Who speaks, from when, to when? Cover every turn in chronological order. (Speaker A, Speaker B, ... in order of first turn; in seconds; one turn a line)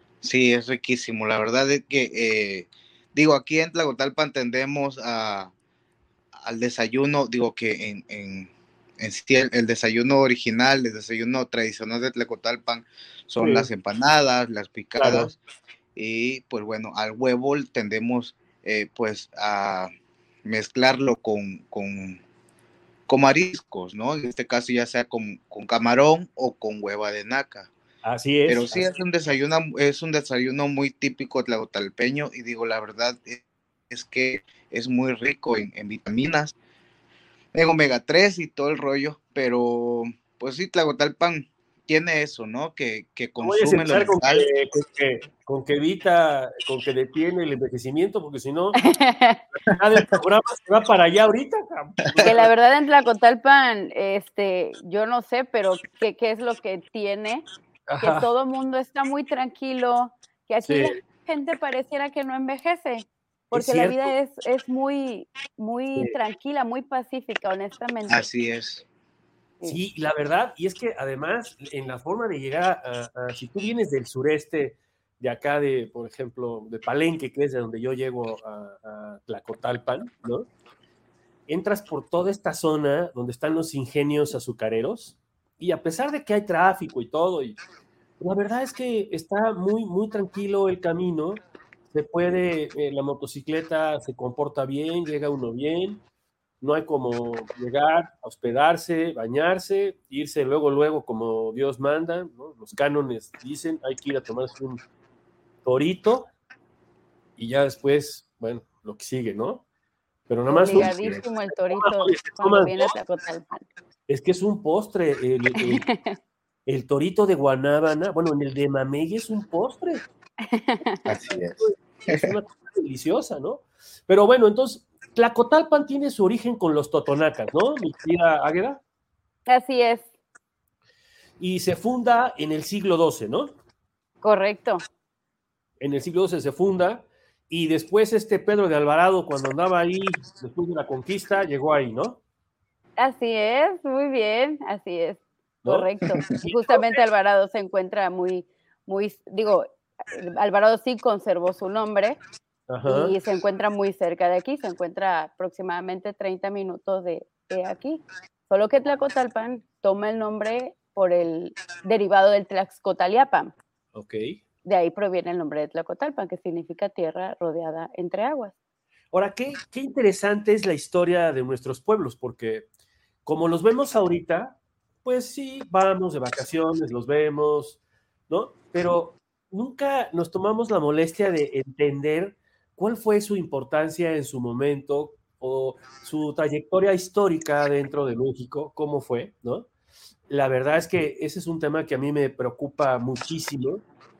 Speaker A: 0.2-5.5
Speaker A: 6.4-15.4
Speaker B: 13.4-13.7
Speaker B: 15.0-15.3
Speaker A: 15.9-19.9
Speaker A: 20.4-22.2
Speaker A: 23.1-27.7
Speaker B: 28.0-28.7
Speaker A: 28.5-36.5
Speaker A: 37.5-44.5
Speaker B: 43.4-48.8
Speaker C: 48.8-49.4
Speaker B: 49.6-52.5
Speaker C: 52.2-57.5
Speaker B: 57.9-58.3
Speaker C: 58.0-68.2
Speaker B: 60.6-61.0
Speaker B: 63.5-64.1
Speaker A: 68.1-68.8
Speaker B: 69.6-80.5
Speaker B: 81.5-87.6
Speaker B: 88.2-96.0
Speaker B: 96.6-104.8
Speaker B: 105.6-106.3
Speaker B: 107.4-109.6
Speaker B: 110.3-112.9
Speaker C: 110.5-113.7
Speaker A: 110.7-111.2
Speaker B: 114.1-115.9
Speaker C: 115.6-116.2
Speaker B: 116.7-120.1
Speaker C: 120.4-121.1
Speaker A: 121.1-122.3
Speaker B: 121.6-128.8
Speaker C: 129.5-130.1
Speaker B: 131.4-133.6
Speaker C: 134.2-134.8
Speaker B: 135.8-142.2
Speaker C: 143.0-152.2
Speaker B: 145.6-147.0
Speaker B: 152.7-153.2
Speaker C: 152.8-163.6
Speaker B: 163.9-164.4
Speaker C: 164.6-168.5
Speaker B: 169.1-172.7
Speaker B: 173.2-189.7
Speaker B: 190.3-193.8